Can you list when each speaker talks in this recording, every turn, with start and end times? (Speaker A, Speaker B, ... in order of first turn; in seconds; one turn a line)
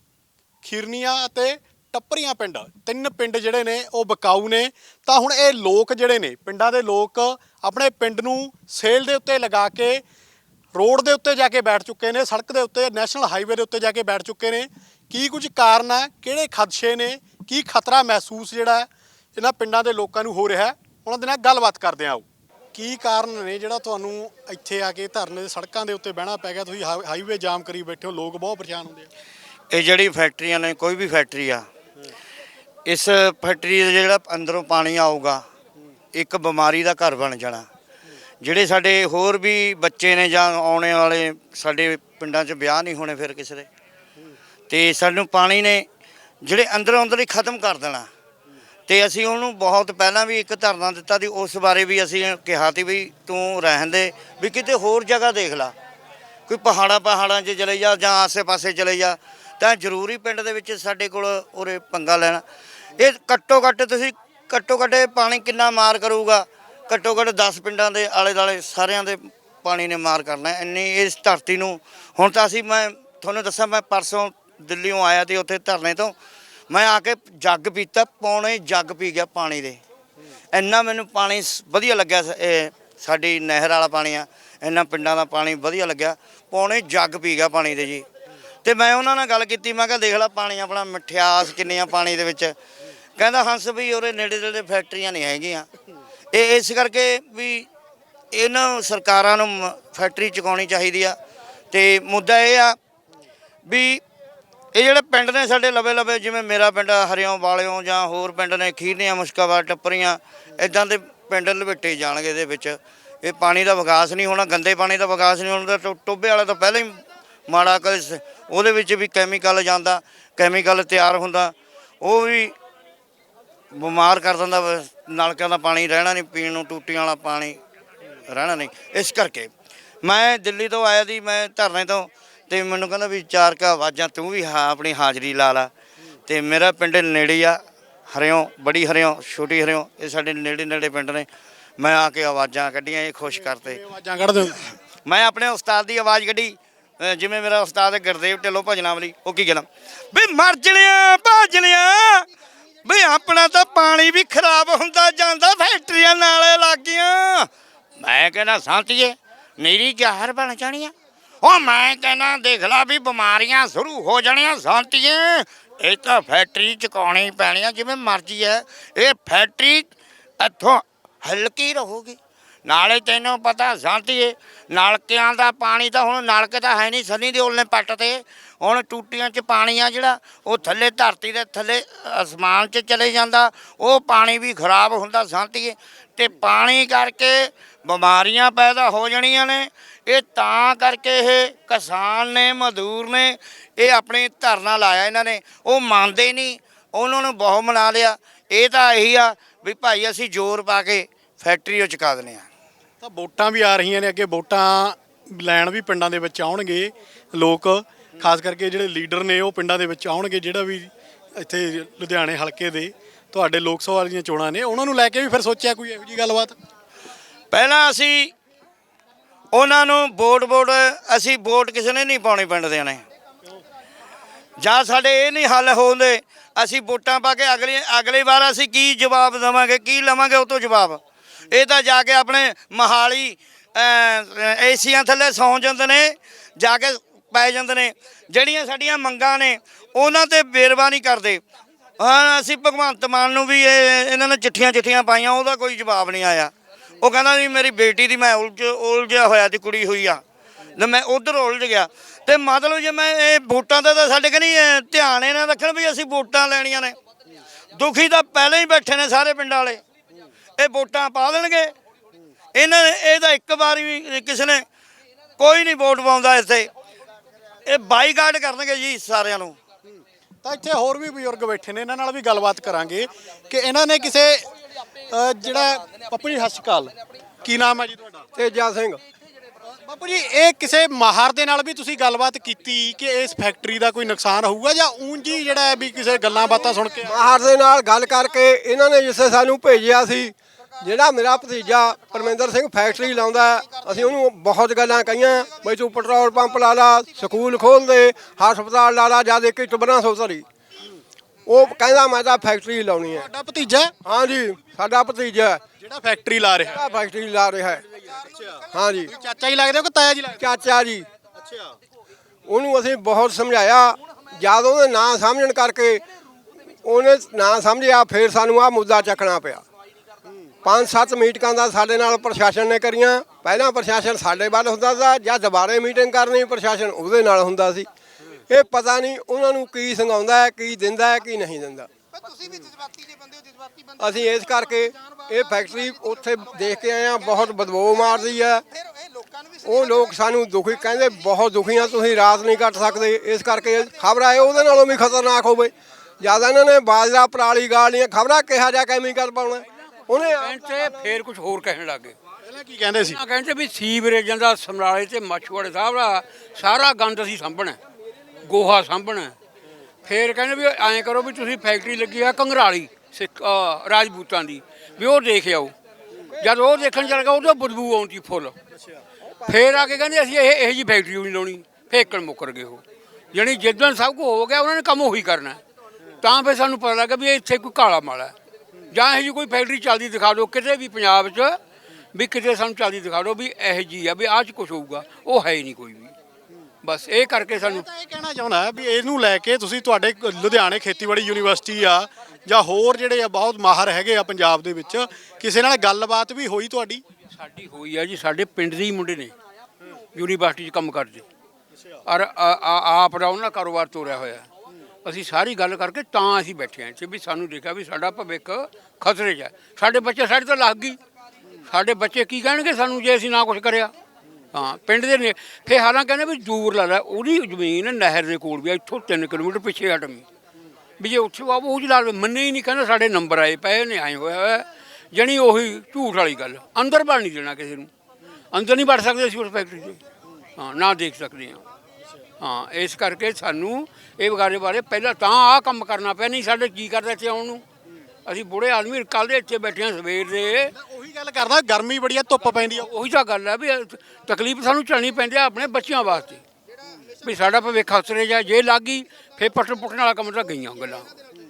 Speaker A: 0.6-10.0
Speaker A: 10.7-29.1
Speaker B: 29.7-31.7
Speaker B: 32.9-35.4
Speaker B: 36.1-37.7
Speaker B: 38.4-43.7
Speaker B: 44.7-45.9
Speaker B: 46.4-48.1
Speaker B: 48.9-55.7
Speaker B: 56.5-62.4
Speaker B: 63.0-76.2
Speaker B: 76.7-79.8
Speaker B: 80.5-88.0
Speaker B: 88.7-92.5
Speaker B: 93.2-95.7
Speaker B: 96.3-97.7
Speaker B: 98.3-101.2
Speaker B: 101.7-102.8
Speaker B: 103.7-104.0
Speaker B: 104.7-122.5
Speaker B: 123.7-127.6
Speaker B: 128.3-129.5
Speaker B: 130.0-135.7
Speaker B: 136.3-141.3
Speaker B: 141.8-143.8
Speaker A: 143.3-144.6
Speaker B: 145.1-152.3
Speaker B: 152.8-202.5
Speaker A: 203.0-216.6
Speaker B: 217.5-218.3
Speaker B: 219.5-223.0
Speaker B: 224.6-241.4
Speaker B: 242.0-250.2
Speaker B: 250.8-257.0
Speaker B: 257.8-259.8
Speaker B: 260.6-261.7
Speaker B: 262.6-264.6
Speaker B: 265.4-266.7
Speaker B: 267.7-269.6
Speaker A: 269.9-278.3
Speaker C: 278.4-279.0
Speaker A: 279.6-287.2
Speaker C: 287.1-300.4
Speaker C: 301.5-303.3
Speaker A: 303.1-303.9
Speaker C: 304.1-305.6
Speaker A: 305.8-306.8
Speaker C: 306.8-307.8
Speaker A: 308.2-310.5
Speaker C: 308.7-309.1
Speaker C: 310.4-311.1
Speaker A: 311.4-311.8
Speaker C: 312.5-316.0
Speaker C: 316.8-319.6
Speaker C: 320.6-327.9
Speaker C: 328.5-331.9
Speaker C: 334.0-338.6
Speaker C: 339.6-351.1
Speaker D: 350.1-352.2
Speaker A: 352.4-353.2
Speaker D: 353.1-357.8
Speaker D: 358.4-359.4
Speaker D: 360.1-365.7
Speaker D: 366.4-368.6
Speaker C: 369.2-370.1
Speaker D: 369.5-375.6
Speaker D: 376.2-378.3
Speaker D: 378.9-381.6
Speaker D: 382.1-386.1
Speaker D: 386.8-387.9
Speaker A: 387.6-397.0
Speaker D: 397.3-399.3
Speaker D: 400.1-401.2
Speaker D: 402.1-404.5
Speaker D: 405.0-411.0
Speaker D: 411.7-413.9
Speaker D: 414.5-420.3
Speaker D: 421.0-427.9
Speaker D: 428.5-430.0
Speaker D: 430.6-431.6
Speaker D: 432.4-437.6
Speaker D: 438.3-440.7
Speaker A: 440.7-442.9
Speaker D: 442.7-446.4
Speaker D: 447.2-451.1